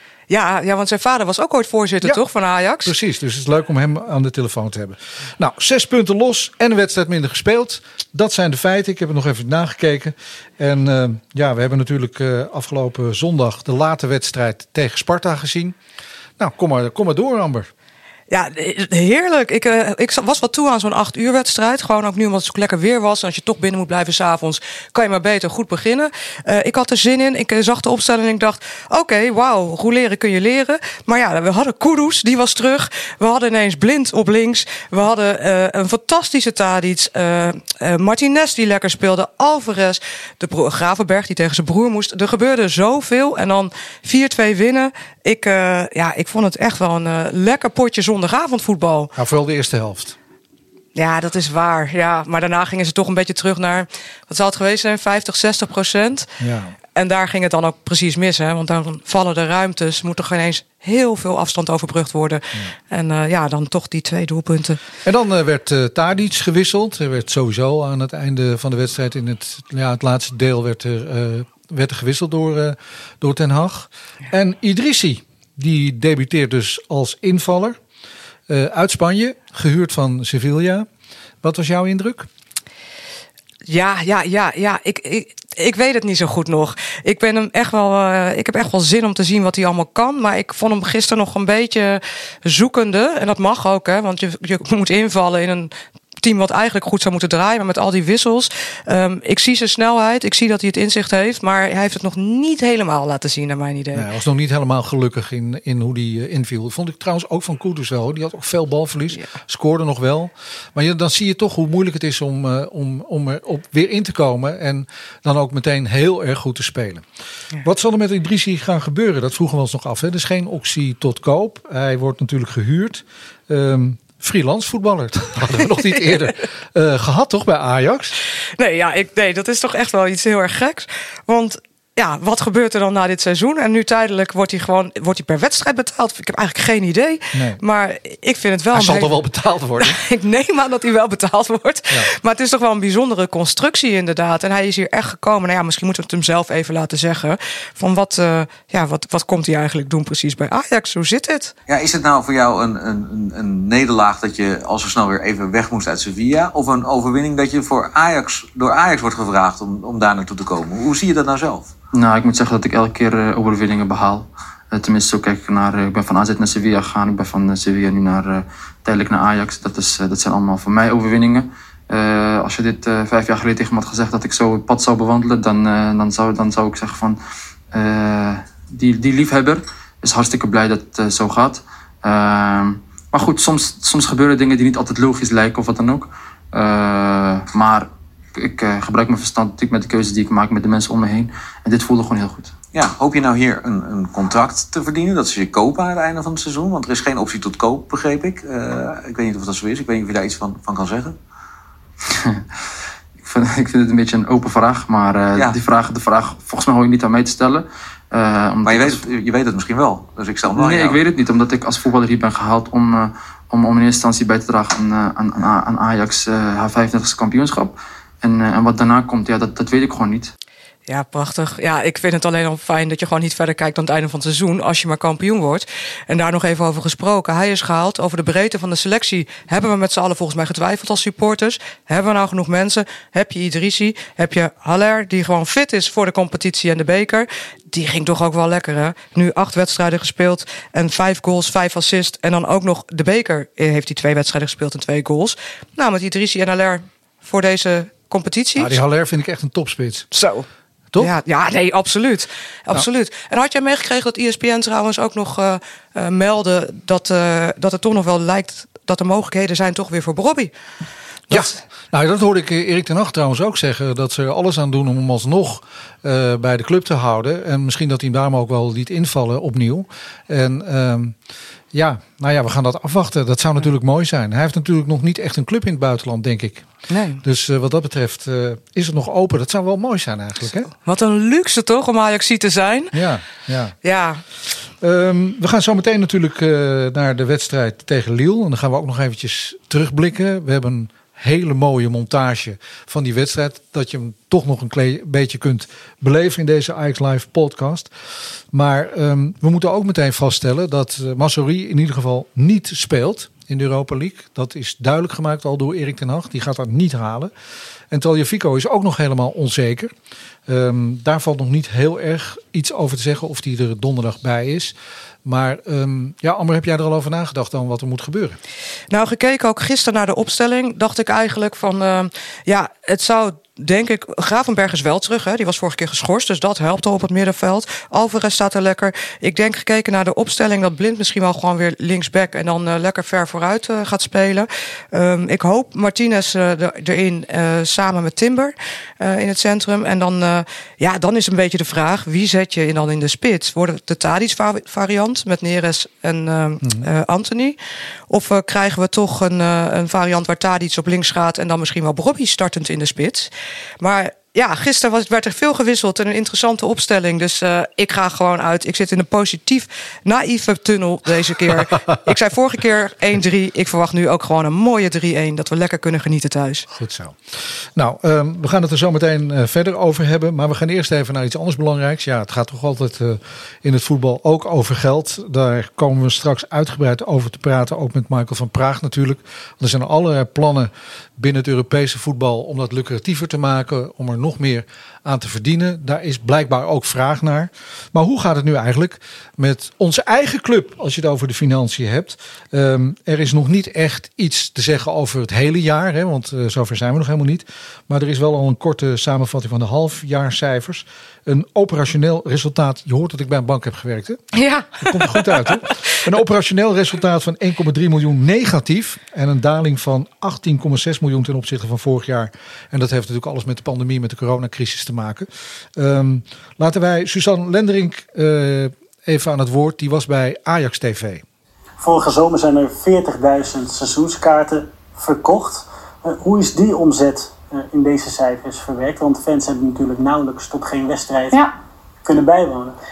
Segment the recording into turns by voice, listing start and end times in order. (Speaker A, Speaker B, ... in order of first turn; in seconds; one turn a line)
Speaker A: 0.3-2.9
Speaker B: 2.8-15.8
Speaker B: 16.4-17.7
Speaker A: 18.3-49.1
Speaker B: 49.1-50.2
Speaker A: 51.0-56.3
Speaker B: 56.4-56.8
Speaker A: 57.0-64.8
Speaker B: 65.0-77.8
Speaker B: 78.5-80.9
Speaker B: 81.4-82.3
Speaker A: 83.7-104.1
Speaker B: 103.9-117.0
Speaker B: 117.6-128.2
Speaker A: 128.6-139.2
Speaker B: 137.3-137.6
Speaker B: 138.7-140.0
Speaker A: 139.8-151.5
Speaker C: 151.7-161.7
Speaker D: 161.9-177.2
Speaker D: 177.7-192.5
Speaker C: 192.7-201.2
Speaker D: 202.1-202.4
Speaker D: 203.2-209.0
Speaker C: 205.3-205.6
Speaker C: 208.6-211.0
Speaker D: 210.5-220.3
Speaker A: 220.9-248.8
Speaker B: 248.6-250.1
Speaker A: 250.1-250.5
Speaker A: 251.0-260.5
Speaker A: 261.3-261.6
Speaker B: 261.3-271.2
Speaker B: 271.7-276.7
Speaker A: 276.9-277.2
Speaker B: 277.2-280.7
Speaker A: 280.8-283.0
Speaker B: 282.9-283.8
Speaker A: 283.8-284.2
Speaker B: 284.8-297.9
Speaker B: 298.5-307.3
Speaker B: 307.9-309.9
Speaker B: 310.5-318.4
Speaker A: 318.9-347.6
Speaker A: 348.1-366.7
Speaker B: 366.7-367.2
Speaker B: 367.8-421.2
Speaker A: 404.3-406.0
Speaker E: 421.8-431.4
Speaker E: 432.1-432.8